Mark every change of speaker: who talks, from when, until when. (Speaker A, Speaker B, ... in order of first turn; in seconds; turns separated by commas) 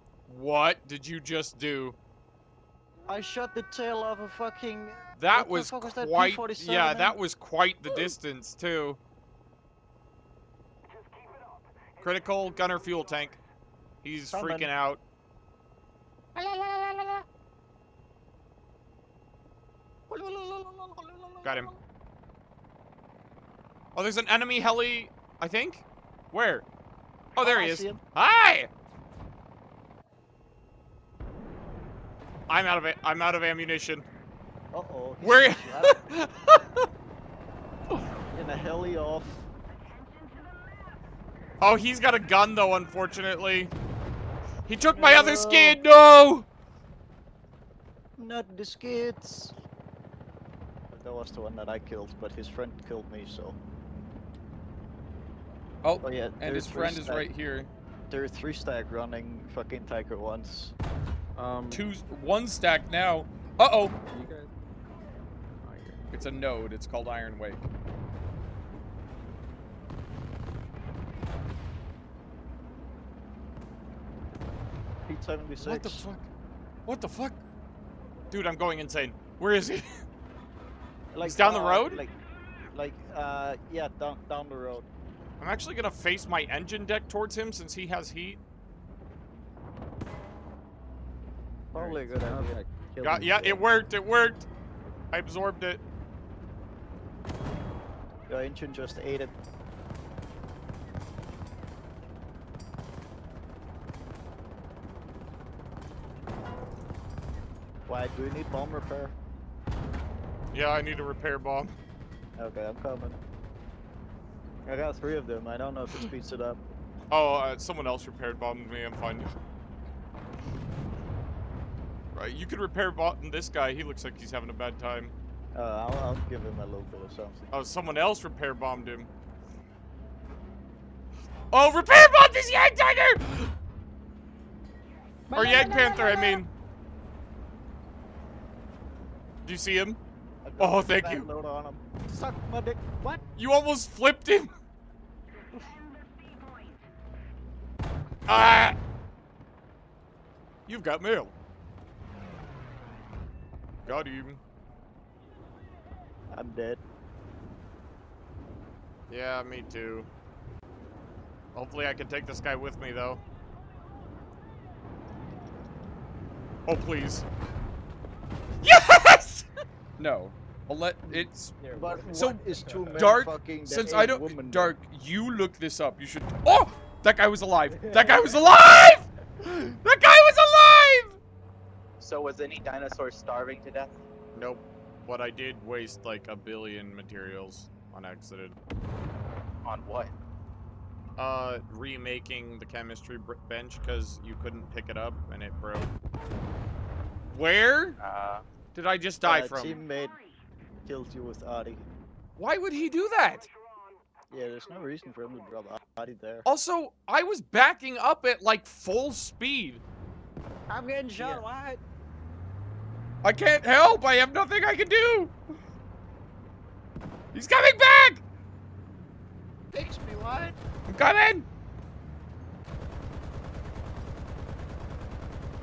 Speaker A: 0.3-2.0, Speaker B: 3.1-7.2, Speaker A: 5.2-9.0, Speaker B: 7.9-8.1, Speaker A: 12.0-13.4, Speaker A: 14.0-15.0, Speaker B: 14.3-14.7, Speaker B: 16.4-17.2, Speaker B: 20.1-21.8, Speaker A: 21.4-21.7, Speaker A: 23.9-26.7, Speaker A: 27.4-28.7, Speaker B: 27.4-28.0, Speaker A: 32.5-34.1, Speaker B: 34.7-36.0, Speaker A: 35.2-36.9, Speaker B: 38.3-39.5, Speaker A: 41.6-43.7, Speaker A: 44.7-46.5, Speaker B: 44.8-45.8, Speaker B: 48.2-49.5, Speaker B: 50.9-53.6, Speaker A: 55.8-57.7, Speaker B: 56.0-57.3, Speaker B: 58.1-60.8, Speaker C: 61.4-61.8, Speaker A: 61.7-64.0, Speaker C: 64.1-64.5, Speaker C: 65.6-66.2, Speaker A: 66.1-67.7, Speaker B: 75.1-76.0, Speaker A: 75.6-76.3, Speaker A: 76.9-77.4, Speaker A: 78.3-79.9, Speaker B: 81.1-82.1, Speaker A: 81.2-82.0, Speaker B: 82.7-84.9, Speaker A: 85.4-88.4, Speaker B: 91.7-92.6, Speaker C: 91.8-93.6, Speaker A: 93.0-94.5, Speaker A: 95.1-95.8, Speaker B: 98.3-99.3, Speaker B: 107.9-109.1, Speaker A: 110.5-111.7, Speaker B: 112.4-113.2, Speaker B: 114.7-116.6, Speaker A: 117.1-119.3, Speaker A: 122.2-125.2, Speaker B: 125.5-127.5, Speaker A: 127.5-129.1, Speaker A: 131.5-133.5, Speaker B: 135.3-136.4, Speaker A: 135.3-136.5, Speaker A: 139.4-140.0, Speaker B: 140.4-143.2, Speaker A: 140.6-141.3, Speaker A: 143.4-144.5, Speaker A: 148.3-148.8, Speaker A: 150.7-151.3, Speaker A: 153.8-154.4, Speaker B: 156.3-156.8, Speaker A: 159.1-160.1, Speaker A: 161.5-163.2, Speaker A: 166.7-167.2, Speaker A: 168.6-169.5, Speaker A: 170.0-181.2, Speaker B: 171.2-174.8, Speaker C: 171.6-173.1, Speaker C: 177.7-178.2, Speaker D: 182.0-183.9, Speaker A: 184.3-188.6, Speaker D: 189.7-190.1, Speaker A: 191.2-195.9, Speaker A: 197.3-198.0, Speaker D: 198.0-198.4, Speaker A: 198.7-199.8, Speaker B: 199.2-200.2, Speaker B: 200.8-201.8, Speaker A: 202.4-203.5, Speaker B: 204.3-206.5, Speaker A: 206.5-209.8, Speaker B: 210.7-211.8, Speaker A: 213.2-215.3, Speaker A: 217.3-218.2, Speaker B: 219.7-220.6, Speaker A: 220.9-221.5